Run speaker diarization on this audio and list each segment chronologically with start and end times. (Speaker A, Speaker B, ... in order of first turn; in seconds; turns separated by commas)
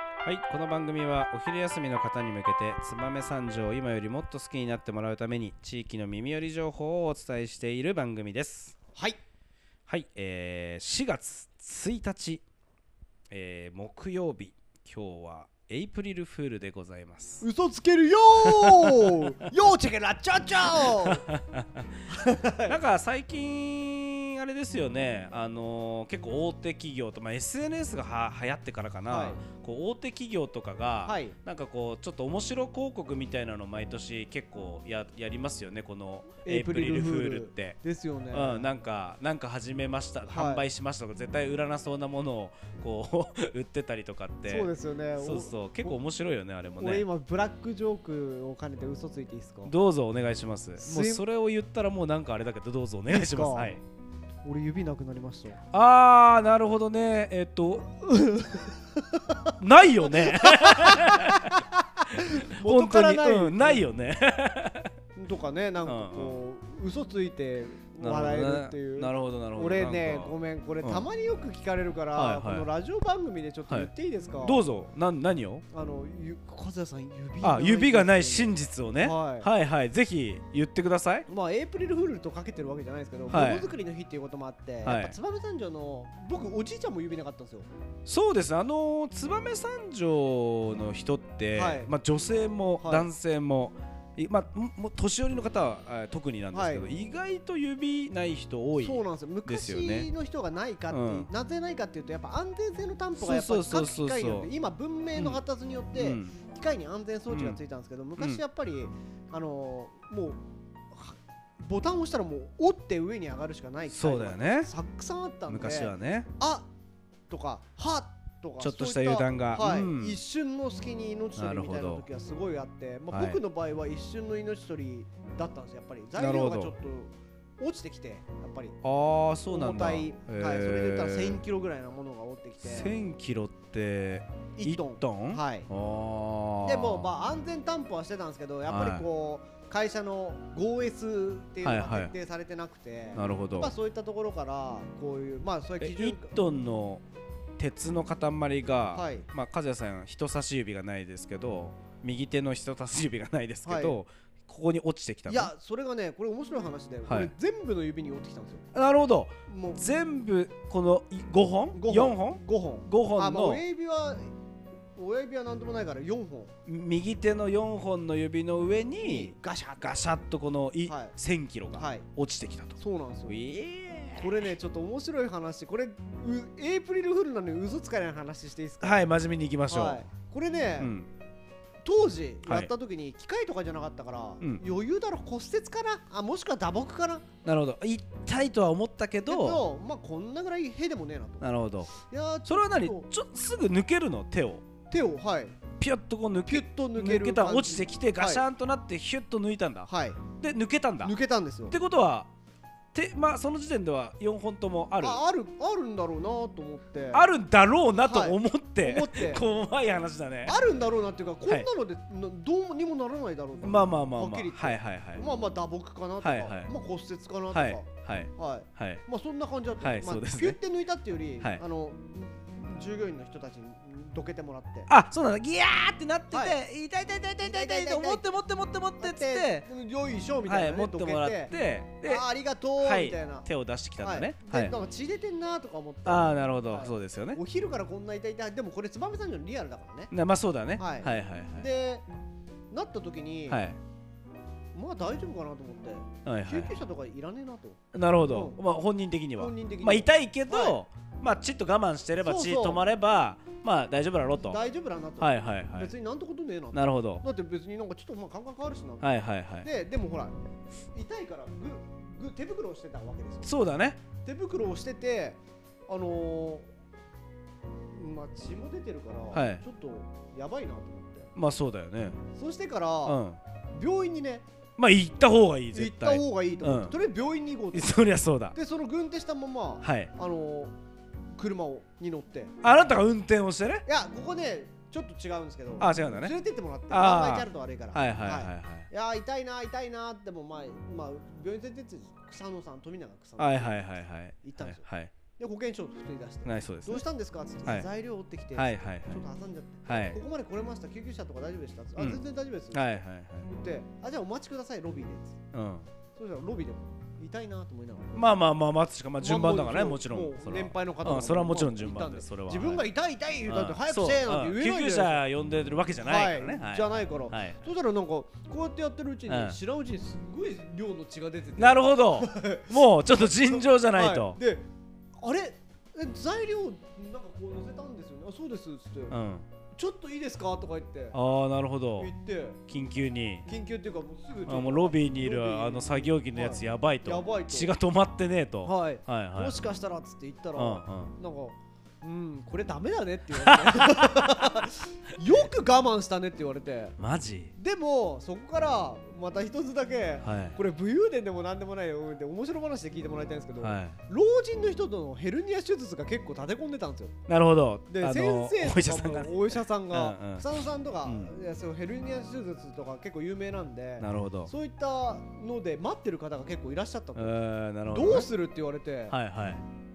Speaker A: 0.2-8.8, Speaker A: 9.9-12.4, Speaker A: 13.3-17.4, Speaker B: 17.4-21.2, Speaker A: 18.4-19.2, Speaker A: 20.6-21.9, Speaker B: 22.1-22.8, Speaker A: 22.7-37.8, Speaker B: 29.1-29.4, Speaker B: 31.0-31.4, Speaker B: 36.4-38.7, Speaker A: 38.3-47.0, Speaker B: 40.3-40.6, Speaker B: 44.5-46.0, Speaker B: 46.8-49.7, Speaker A: 49.6-53.8, Speaker B: 50.8-51.2, Speaker B: 53.1-53.8, Speaker B: 54.4-55.6, Speaker A: 55.7-58.0, Speaker B: 58.0-59.5, Speaker A: 59.6-61.6, Speaker B: 60.1-63.8, Speaker A: 62.2-64.9, Speaker B: 65.2-74.6, Speaker A: 65.9-66.4, Speaker A: 68.0-71.0, Speaker A: 72.2-72.7, Speaker A: 74.4-75.7, Speaker B: 75.7-79.5, Speaker A: 77.4-81.3, Speaker B: 81.3-87.7, Speaker A: 83.3-83.7, Speaker A: 84.8-85.2, Speaker A: 88.1-100.1, Speaker B: 91.5-91.9, Speaker B: 92.8-93.1, Speaker B: 96.5-96.9, Speaker B: 98.8-110.4, Speaker A: 100.9-101.3, Speaker A: 103.2-104.5, Speaker A: 105.2-105.4, Speaker A: 106.0-106.4, Speaker A: 107.3-107.6, Speaker B: 110.9-116.7, Speaker A: 113.9-114.7, Speaker A: 115.5-116.3, Speaker B: 117.3-128.8, Speaker A: 118.6-120.2, Speaker A: 121.4-122.1, Speaker A: 123.1-123.4, Speaker A: 126.2-126.7, Speaker A: 128.8-131.4, Speaker B: 129.5-132.9, Speaker A: 132.6-137.1, Speaker B: 134.6-135.7, Speaker B: 136.6-146.3, Speaker A: 138.7-139.1, Speaker A: 141.6-142.1, Speaker A: 143.2-143.7, Speaker A: 145.8-147.0, Speaker A: 147.6-155.5, Speaker B: 148.9-149.2, Speaker B: 153.7-154.0, Speaker B: 155.3-158.7, Speaker A: 157.1-157.3, Speaker A: 158.7-163.6, Speaker B: 159.5-159.8, Speaker B: 161.7-164.3, Speaker B: 165.0-166.5, Speaker A: 166.7-174.5, Speaker B: 169.0-170.1, Speaker B: 170.9-171.2, Speaker B: 171.8-172.1, Speaker B: 172.8-173.4, Speaker B: 174.2-179.1, Speaker A: 178.8-180.1, Speaker B: 179.7-180.9, Speaker A: 180.8-181.1, Speaker B: 181.8-187.3, Speaker A: 182.5-182.7, Speaker A: 187.4-189.6, Speaker B: 189.3-193.1, Speaker A: 191.4-191.9, Speaker A: 192.4-194.6, Speaker B: 194.9-195.6, Speaker A: 195.8-201.2, Speaker B: 196.5-198.4, Speaker B: 199.9-200.2, Speaker B: 201.0-201.8, Speaker A: 201.7-202.3, Speaker A: 202.9-205.2, Speaker B: 205.0-207.2, Speaker A: 207.1-210.6, Speaker B: 208.0-209.4, Speaker B: 210.5-224.9, Speaker A: 213.6-215.2, Speaker A: 216.2-216.7, Speaker A: 217.5-219.0, Speaker A: 219.8-220.6, Speaker A: 224.9-229.7, Speaker B: 226.3-226.6, Speaker B: 227.4-228.3, Speaker B: 229.0-231.5, Speaker A: 230.5-232.2, Speaker B: 232.0-233.5, Speaker A: 232.8-234.8, Speaker B: 234.0-240.1, Speaker A: 236.1-237.4, Speaker A: 240.1-241.7, Speaker B: 240.8-242.1, Speaker B: 242.7-243.7, Speaker A: 243.5-243.8, Speaker B: 244.7-248.6, Speaker A: 246.2-246.7, Speaker A: 247.9-254.6, Speaker B: 249.4-250.8, Speaker B: 252.2-252.8, Speaker B: 254.4-259.1, Speaker A: 255.2-255.9, Speaker A: 256.7-257.2, Speaker A: 259.0-259.7, Speaker B: 259.6-260.3, Speaker B: 260.9-263.5, Speaker A: 263.4-264.0, Speaker B: 264.2-266.7, Speaker B: 267.9-271.3, Speaker A: 269.3-269.6, Speaker A: 271.3-272.2, Speaker B: 272.3-273.2, Speaker A: 273.0-273.4, Speaker B: 273.7-274.4, Speaker A: 274.8-276.9, Speaker B: 275.7-278.0, Speaker A: 277.7-278.6, Speaker B: 278.5-280.7, Speaker A: 279.8-280.1, Speaker B: 281.3-282.5, Speaker A: 282.6-283.8, Speaker B: 283.9-293.8, Speaker A: 285.8-286.3, Speaker A: 286.9-288.9, Speaker A: 293.4-295.1, Speaker B: 294.4-294.8, Speaker B: 295.3-305.4, Speaker A: 296.4-297.0, Speaker A: 298.5-299.2, Speaker A: 299.9-300.2, Speaker A: 302.0-302.2, Speaker A: 302.7-303.5, Speaker A: 305.5-305.9, Speaker B: 306.1-308.3, Speaker A: 308.1-312.8, Speaker B: 309.2-315.2, Speaker A: 313.4-317.6, Speaker B: 316.0-324.6, Speaker A: 319.3-319.6, Speaker A: 321.6-324.4, Speaker B: 325.2-329.1, Speaker A: 329.1-329.4, Speaker B: 329.7-331.2, Speaker A: 331.1-332.1, Speaker B: 332.0-332.6, Speaker A: 332.7-333.5, Speaker B: 333.4-337.7, Speaker A: 334.5-339.6, Speaker B: 338.6-346.9, Speaker A: 340.6-341.1, Speaker A: 343.4-344.4, Speaker A: 347.0-347.5, Speaker B: 347.6-357.1, Speaker A: 350.2-350.6, Speaker A: 353.6-354.0, Speaker A: 357.3-361.3, Speaker B: 357.9-367.4, Speaker A: 364.0-364.5, Speaker A: 367.1-368.3, Speaker B: 367.9-369.2, Speaker A: 369.1-369.6